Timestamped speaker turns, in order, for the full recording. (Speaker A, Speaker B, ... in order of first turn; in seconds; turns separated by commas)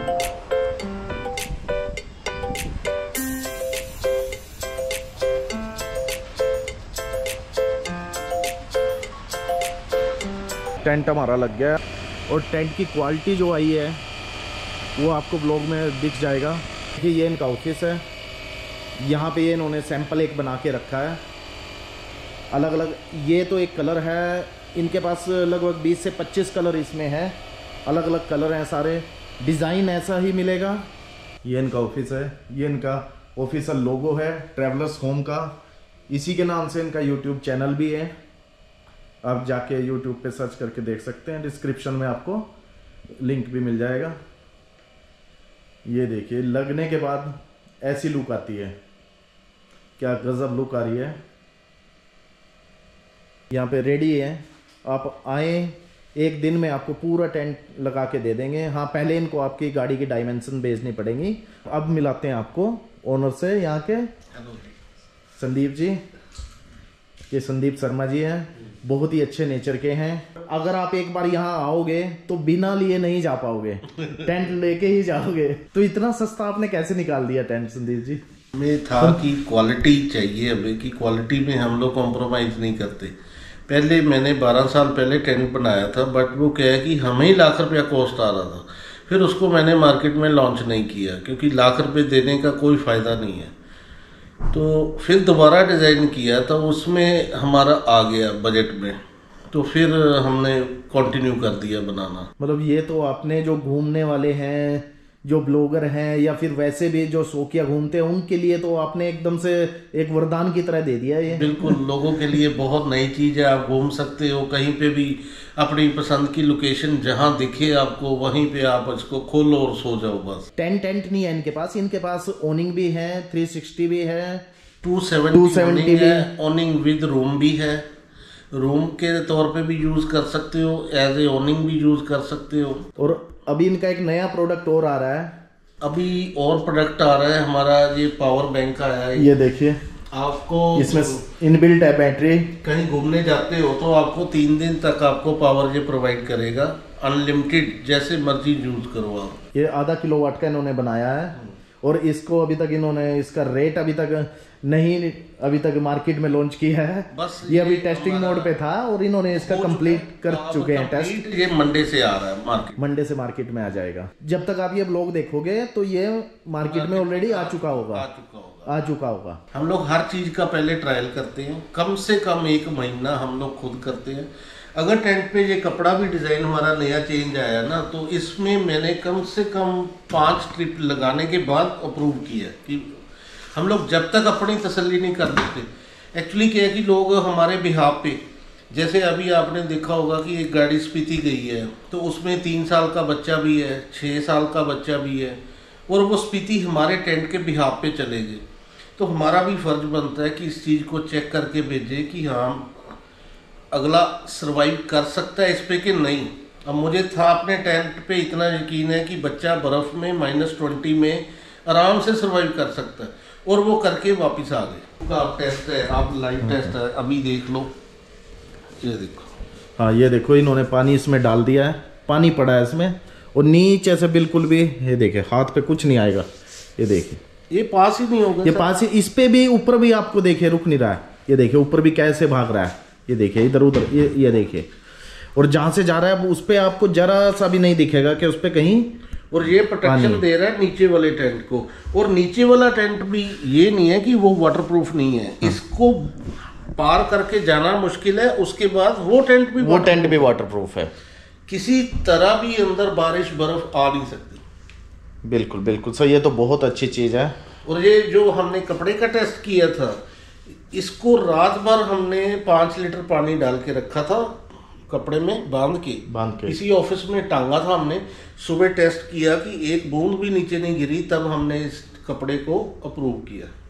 Speaker A: 10.8-14.0, Speaker A: 15.0-18.0, Speaker A: 19.0-21.2, Speaker A: 22.5-30.9, Speaker A: 31.4-35.5, Speaker A: 36.1-38.1, Speaker A: 39.2-42.5, Speaker A: 43.2-44.2, Speaker A: 45.9-48.7, Speaker A: 50.0-51.2, Speaker A: 53.5-64.1, Speaker B: 64.3-64.8, Speaker A: 65.4-66.0, Speaker A: 67.3-78.2, Speaker B: 78.5-83.2, Speaker B: 83.7-93.5, Speaker B: 94.5-99.0, Speaker B: 99.5-102.3, Speaker A: 102.4-111.8, Speaker B: 111.3-120.5, Speaker A: 120.6-124.5, Speaker B: 124.8-127.9, Speaker A: 125.3-126.3, Speaker B: 128.5-132.8, Speaker A: 133.0-135.3, Speaker B: 135.8-139.3, Speaker A: 139.1-139.8, Speaker B: 140.1-141.2, Speaker A: 140.7-142.5, Speaker B: 142.6-149.4, Speaker A: 149.5-161.3, Speaker B: 157.1-158.6, Speaker B: 159.3-162.8, Speaker A: 162.8-168.1, Speaker B: 166.6-168.7, Speaker A: 168.7-169.4, Speaker B: 169.5-198.4, Speaker B: 199.0-203.0, Speaker B: 203.7-217.7, Speaker A: 216.4-216.7, Speaker B: 218.8-219.3, Speaker A: 219.8-226.3, Speaker A: 226.8-227.2, Speaker B: 227.5-228.7, Speaker A: 228.4-234.7, Speaker A: 235.3-238.9, Speaker B: 239.3-246.2, Speaker A: 239.8-240.2, Speaker B: 246.8-250.3, Speaker A: 249.6-250.9, Speaker B: 251.5-254.4, Speaker A: 255.2-257.3, Speaker B: 257.6-260.0, Speaker B: 260.7-264.4, Speaker B: 264.9-273.5, Speaker A: 266.1-266.6